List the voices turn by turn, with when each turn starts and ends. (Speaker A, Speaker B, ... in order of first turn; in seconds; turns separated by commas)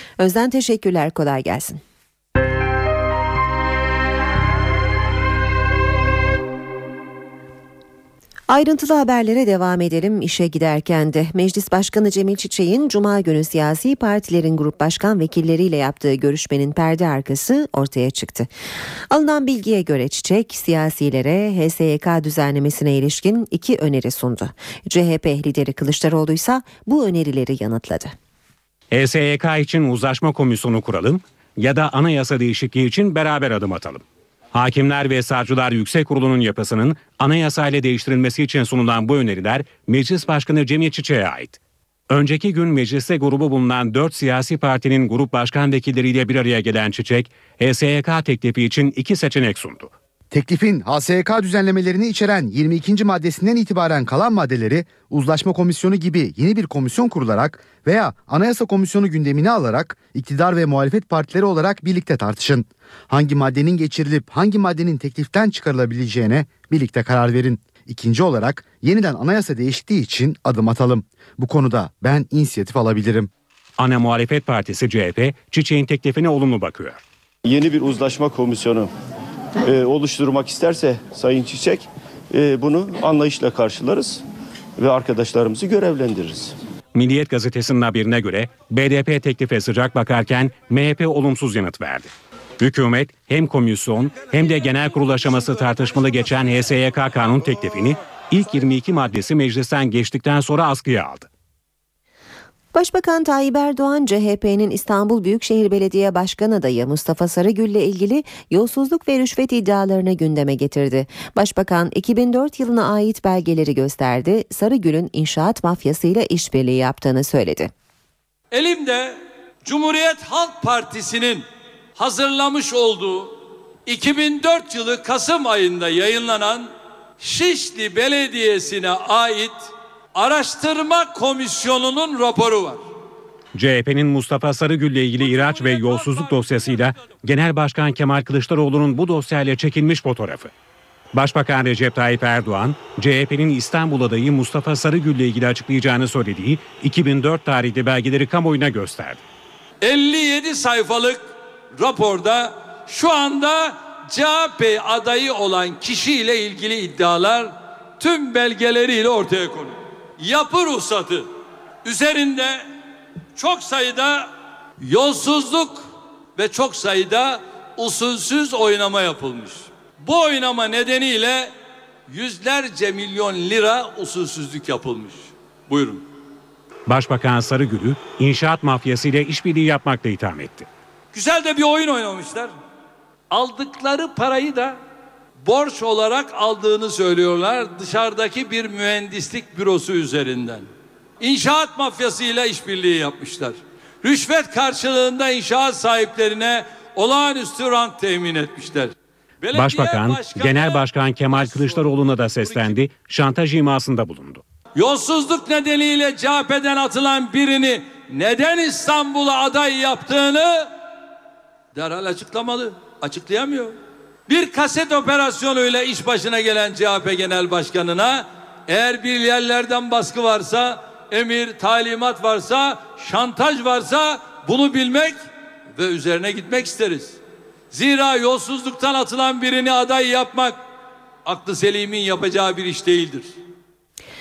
Speaker A: 0.2-1.8, Speaker A: 8.5-18.5, Speaker A: 19.1-28.1, Speaker B: 28.9-41.6, Speaker B: 42.1-49.9, Speaker C: 50.3-73.3, Speaker B: 73.8-77.0, Speaker D: 77.5-78.9, Speaker D: 79.6-84.2, Speaker D: 84.8-86.5, Speaker B: 86.9-101.3, Speaker A: 102.7-117.7, Speaker E: 118.5-123.3, Speaker E: 123.9-132.8, Speaker B: 133.6-140.5, Speaker E: 135.2-136.9, Speaker B: 141.1-149.2, Speaker E: 149.8-161.3, Speaker E: 161.8-162.7, Speaker E: 163.4-164.3, Speaker E: 164.8-171.5, Speaker E: 172.1-176.0, Speaker B: 176.9-180.7, Speaker E: 181.1-182.5, Speaker E: 183.3-184.8, Speaker E: 185.4-190.7, Speaker E: 191.2-202.8, Speaker B: 199.5-204.4, Speaker E: 204.8-210.7, Speaker E: 211.8-213.8, Speaker E: 214.3-225.2, Speaker E: 225.8-227.2, Speaker E: 227.7-230.6, Speaker E: 231.3-233.3